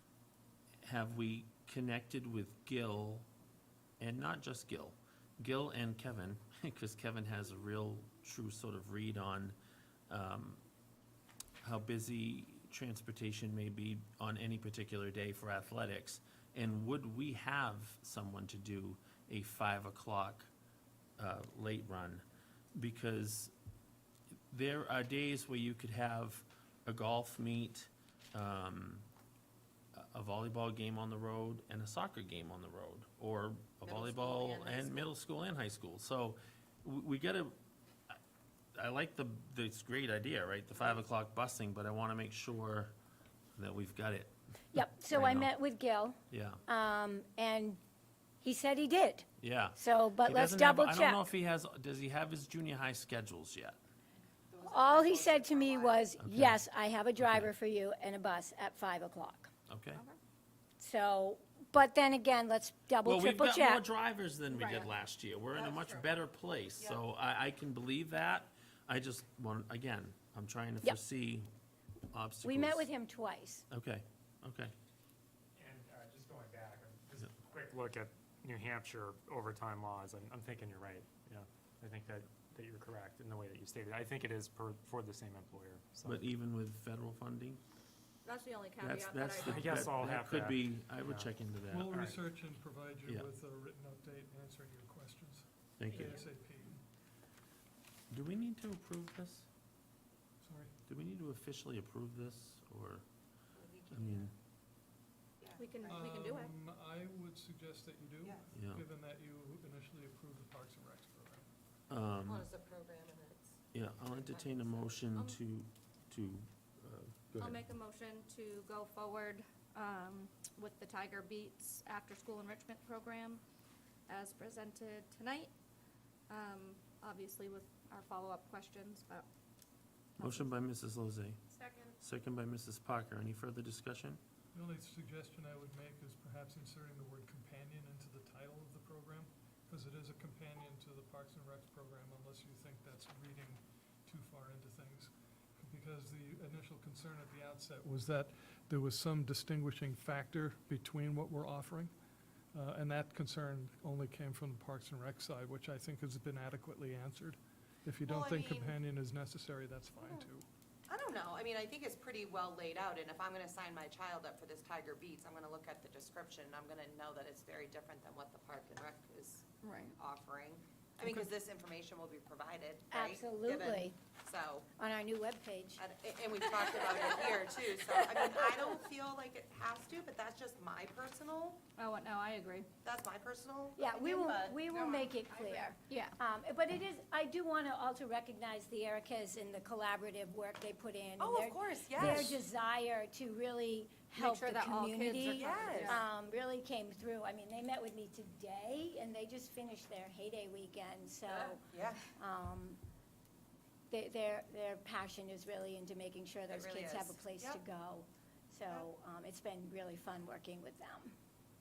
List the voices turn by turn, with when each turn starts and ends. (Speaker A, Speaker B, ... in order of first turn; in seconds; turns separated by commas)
Speaker A: 0.8-3.3, Speaker A: 4.0-9.6, Speaker A: 10.1-10.6, Speaker A: 11.6-20.5, Speaker A: 21.2-23.5, Speaker A: 24.5-29.1, Speaker A: 29.9-37.5, Speaker B: 33.8-35.1, Speaker A: 38.7-42.9, Speaker A: 43.5-45.5, Speaker C: 44.7-47.8, Speaker A: 46.3-46.6, Speaker C: 48.4-51.2, Speaker A: 49.4-53.8, Speaker B: 54.5-56.0, Speaker C: 54.6-59.5, Speaker A: 56.2-56.6, Speaker A: 57.2-57.5, Speaker A: 59.7-60.0, Speaker C: 60.8-63.9, Speaker A: 63.0-71.5, Speaker D: 64.5-64.8, Speaker B: 65.5-66.1, Speaker A: 72.1-72.9, Speaker C: 72.4-73.7, Speaker A: 73.7-74.7, Speaker E: 75.6-86.2, Speaker A: 86.0-87.6, Speaker D: 88.2-89.9, Speaker A: 88.8-91.9, Speaker E: 89.5-91.3, Speaker F: 91.7-96.8, Speaker E: 91.9-92.2, Speaker A: 95.8-96.2, Speaker A: 98.1-99.5, Speaker F: 100.4-100.7, Speaker A: 100.9-103.1, Speaker B: 103.6-104.3, Speaker A: 103.9-104.3, Speaker B: 105.4-106.2, Speaker D: 105.6-106.5, Speaker F: 105.8-111.5, Speaker A: 108.5-108.8, Speaker A: 111.9-112.5, Speaker B: 112.2-113.6, Speaker A: 113.7-117.6, Speaker D: 117.4-123.4, Speaker D: 124.1-125.5, Speaker D: 126.3-129.2, Speaker A: 130.2-131.4, Speaker A: 132.0-134.2, Speaker F: 134.5-151.9, Speaker F: 152.5-160.5, Speaker B: 158.0-158.8, Speaker B: 160.9-174.7, Speaker D: 169.6-169.9, Speaker C: 172.9-174.0, Speaker C: 174.8-175.8, Speaker B: 175.8-181.6, Speaker D: 181.8-182.7, Speaker B: 182.8-185.7, Speaker C: 183.8-202.8, Speaker D: 185.9-186.2, Speaker B: 191.2-192.4, Speaker D: 194.2-196.0, Speaker B: 195.3-196.0, Speaker B: 201.3-202.0, Speaker C: 203.9-211.2, Speaker B: 206.5-207.6